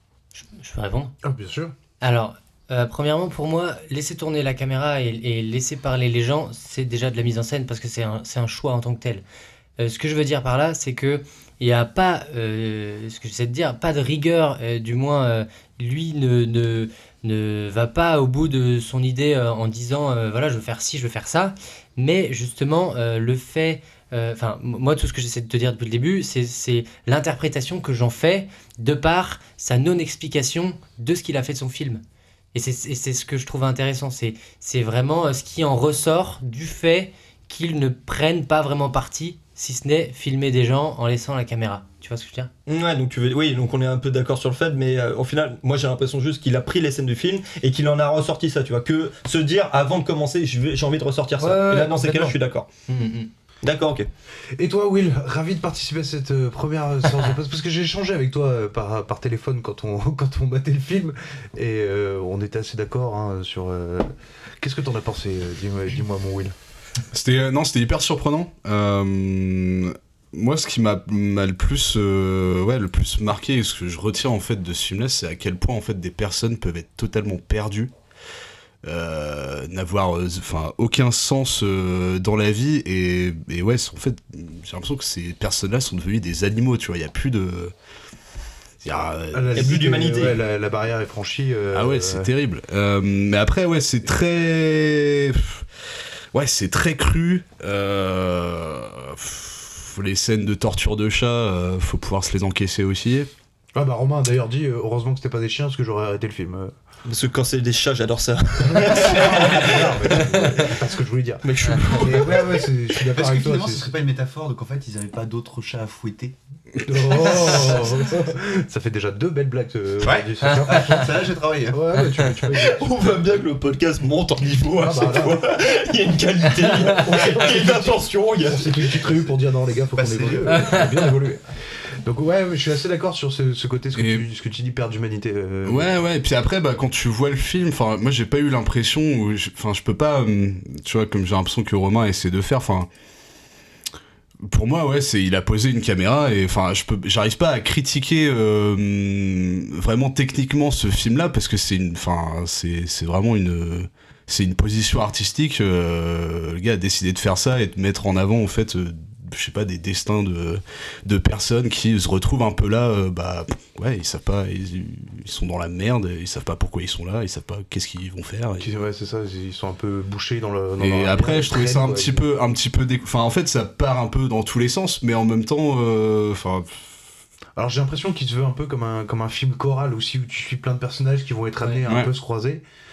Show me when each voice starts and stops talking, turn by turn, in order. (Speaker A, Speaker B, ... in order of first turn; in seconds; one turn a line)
Speaker A: 0.3-1.1
Speaker B: 1.2-1.7
Speaker A: 2.0-9.2
Speaker A: 9.8-32.0
Speaker A: 32.5-42.5
Speaker C: 42.7-52.7
Speaker A: 51.4-52.4
Speaker A: 52.9-53.3
Speaker C: 53.6-54.1
Speaker B: 54.6-66.5
Speaker D: 67.1-77.9
Speaker D: 78.8-87.7
Speaker D: 88.8-90.3
Speaker B: 89.3-92.3
Speaker C: 89.6-90.4
Speaker D: 91.7-95.7
Speaker D: 96.3-103.3
Speaker B: 103.7-106.7
Speaker C: 107.1-110.5
Speaker B: 108.7-113.9
Speaker C: 111.4-112.6
Speaker E: 113.1-116.3
Speaker B: 116.8-122.9
Speaker E: 117.3-117.8
Speaker E: 120.0-121.8
Speaker A: 120.4-120.7
Speaker C: 122.6-129.0
Speaker B: 124.8-125.5
Speaker B: 126.9-131.4
Speaker E: 129.9-130.9
Speaker B: 132.0-136.0
Speaker D: 133.9-134.2
Speaker D: 135.7-142.9
Speaker D: 144.5-168.7
Speaker B: 168.6-172.2
Speaker D: 170.8-176.9
Speaker B: 177.6-182.6